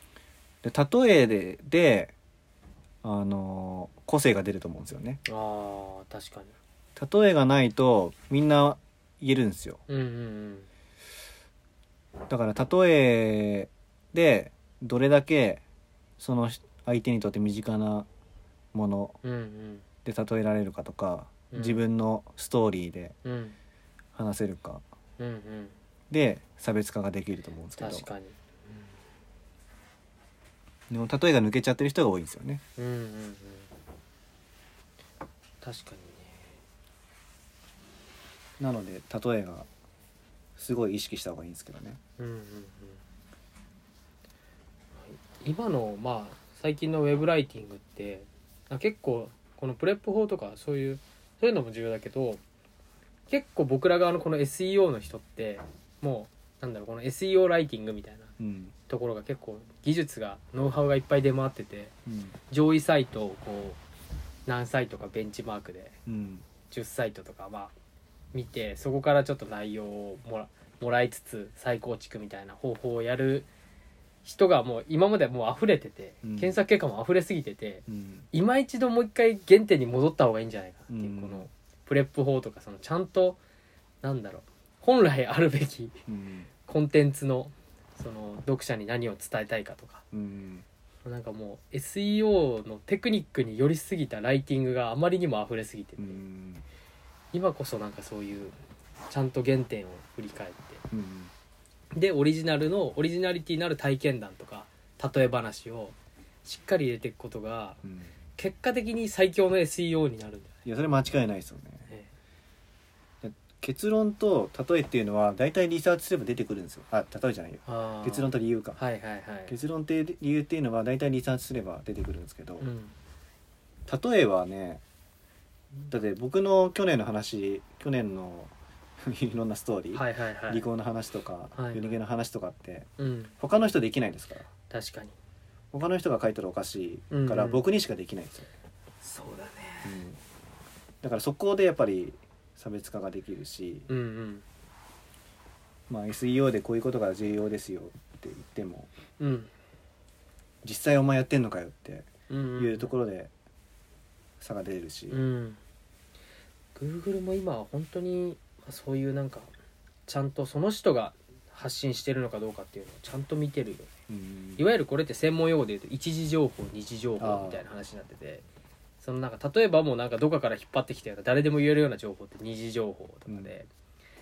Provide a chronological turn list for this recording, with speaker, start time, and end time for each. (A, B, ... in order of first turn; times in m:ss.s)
0:00.6-0:02.1 A
0:03.0-0:05.2 A
0:05.2-0:06.5 B
0:07.0-0:09.8 A
0:09.9-0:10.7 B
0:12.3-0:15.6 A
0:16.2-0:18.1 A
0:18.7-0:19.2 A
0:19.2-0:19.8 B
0:20.0-0:23.2 A
0:21.5-0:21.8 B
0:23.2-0:23.6 B
0:24.2-0:24.8 A
0:25.2-0:25.8 B
0:26.1-0:28.1 A
0:27.8-0:28.9 B
0:30.9-0:32.6 A
0:32.8-0:33.7 B
0:35.6-0:36.6 B
0:38.6-0:39.7 A
0:40.6-0:42.0 A
0:42.2-0:43.0 B
0:45.0-0:52.4 B
0:53.3-0:58.3 B
0:58.4-0:58.7 A
0:58.9-1:01.9 B
1:02.1-1:02.4 A
1:02.5-1:03.8 B
1:04.5-1:06.0 B
1:06.1-1:06.4 A
1:06.7-1:07.7 B
1:08.3-1:13.5 B
1:14.2-1:23.4 B
1:16.2-1:16.6 A
1:17.9-1:18.3 A
1:20.9-1:21.5 A
1:24.0-1:26.0 B
1:26.1-1:26.5 A
1:26.6-1:30.0 B
1:30.1-1:30.6 A
1:31.0-1:36.2 B
1:36.0-1:36.6 A
1:37.3-1:38.6 B
1:39.1-1:40.8 B
1:40.9-1:41.3 A
1:41.9-1:47.8 B
1:47.8-1:48.1 A
1:48.4-1:50.6 B
1:50.6-1:51.9 A
1:53.2-1:58.8 A
1:57.7-1:59.6 B
1:59.5-2:02.7 A
2:02.6-2:03.0 B
2:03.9-2:04.8 A
2:05.9-2:12.9 A
2:09.9-2:10.6 B
2:11.6-2:12.0 B
2:13.0-2:13.3 B
2:13.4-2:14.5 A
2:14.7-2:15.2 B
2:15.7-2:18.5 A
2:17.1-2:17.6 B
2:19.0-2:20.0 B
2:19.8-2:20.2 A
2:21.0-2:23.9 A
2:23.9-2:24.4 B
2:25.9-2:28.9 A
2:29.2-2:29.5 B
2:30.6-2:33.3 A
2:32.3-2:33.0 B
2:34.4-2:35.2 A
2:35.1-2:35.6 B
2:36.8-2:39.5 B
2:40.1-2:43.9 B
2:44.1-2:44.7 A
2:44.6-2:48.4 B
2:47.2-2:47.6 A
2:49.0-2:53.7 B
2:53.3-2:53.5 A